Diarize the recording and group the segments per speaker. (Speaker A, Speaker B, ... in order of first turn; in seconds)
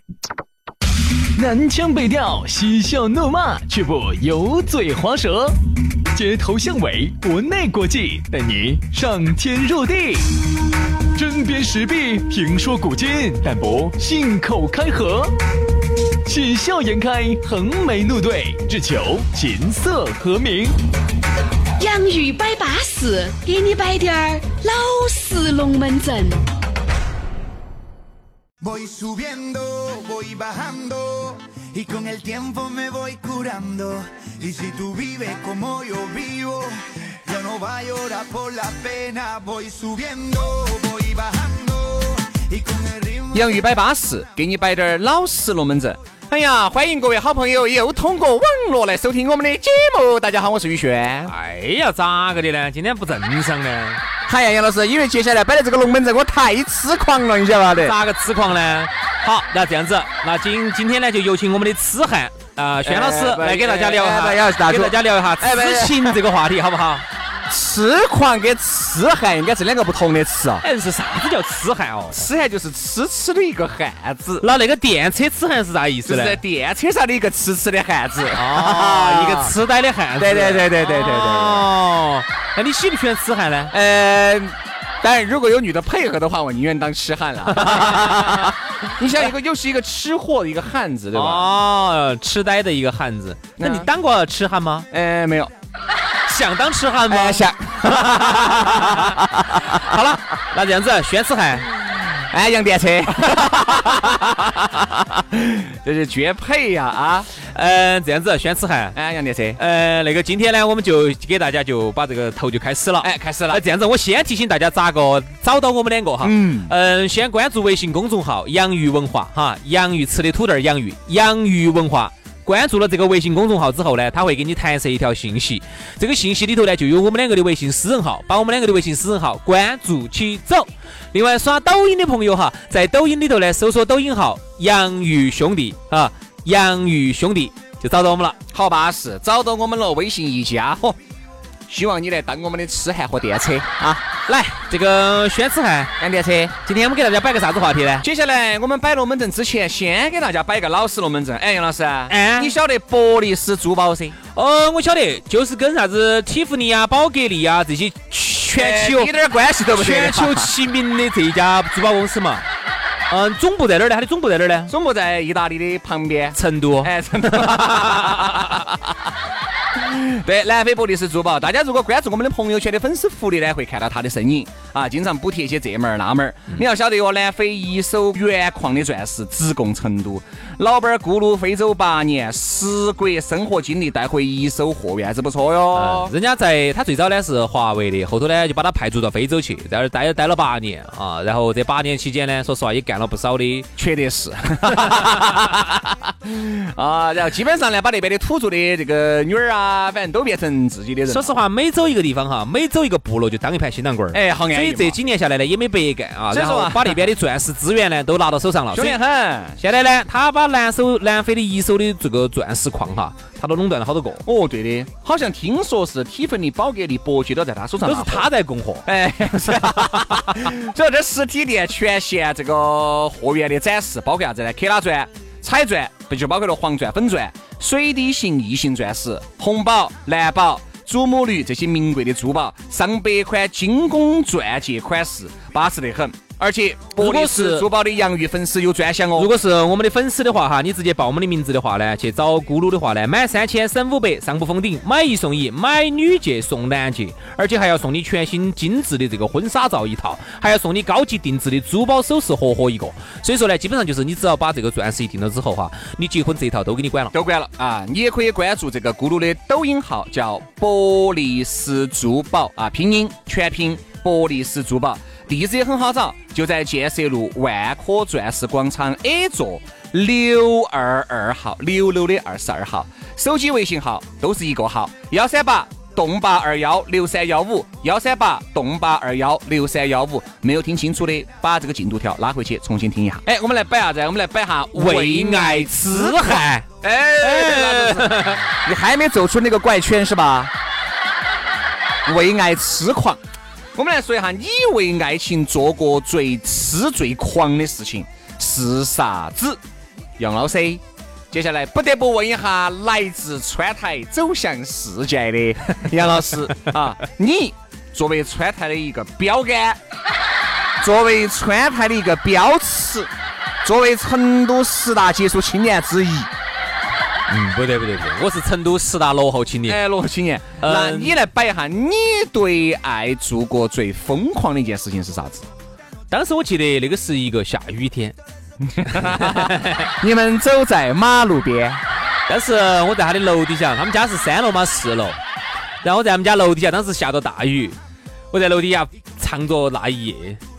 Speaker A: 1.3-5.6, 6.1-10.4, 11.1-15.3, 16.2-20.8
Speaker B: 21.8-26.4
Speaker C: 28.6-43.5
Speaker D: 43.3-51.3, 54.3-58.0, 62.8-66.2, 67.5-70.6, 72.1-74.5, 76.0-79.5, 80.2-81.7, 83.7-91.6, 93.6-93.9, 94.9-95.5, 97.1-100.0, 101.8-107.3, 108.9-109.6, 113.0-113.6, 116.2-116.7, 138.5-141.0, 141.7-144.0, 146.0-146.5, 148.0-154.2, 158.5-160.5, 164.7-168.8, 169.8-186.1, 193.8-201.3, 204.1-205.0, 206.3-207.1, 208.7-209.6, 214.2-218.3, 218.8-239.3, 257.1-290.5, 292.0-293.2, 293.7-299.6, 300.2-309.8, 310.8-313.1, 313.6-316.3, 319.6-325.4, 328.7-331.8
Speaker E: 51.3-54.0, 57.8-67.0, 70.6-72.3, 74.4-76.4, 78.3-83.7, 87.5-88.5, 91.1-94.9, 96.2-97.5, 98.1-101.7, 107.4-109.0, 109.6-138.4, 144.2-145.9, 146.7-148.1, 152.1-152.5, 154.3-159.1, 159.7-162.5, 163.1-164.7, 166.3-168.6, 185.7-193.7, 201.1-209.0, 209.6-214.2, 217.8-218.8, 237.0-237.7, 239.2-257.1, 284.7-286.7, 287.2-288.4, 317.3-319.8, 320.6-321.1, 326.1-328.1, 328.8-329.9, 332.3-335.2, 335.8-337.8, 338.3-340.4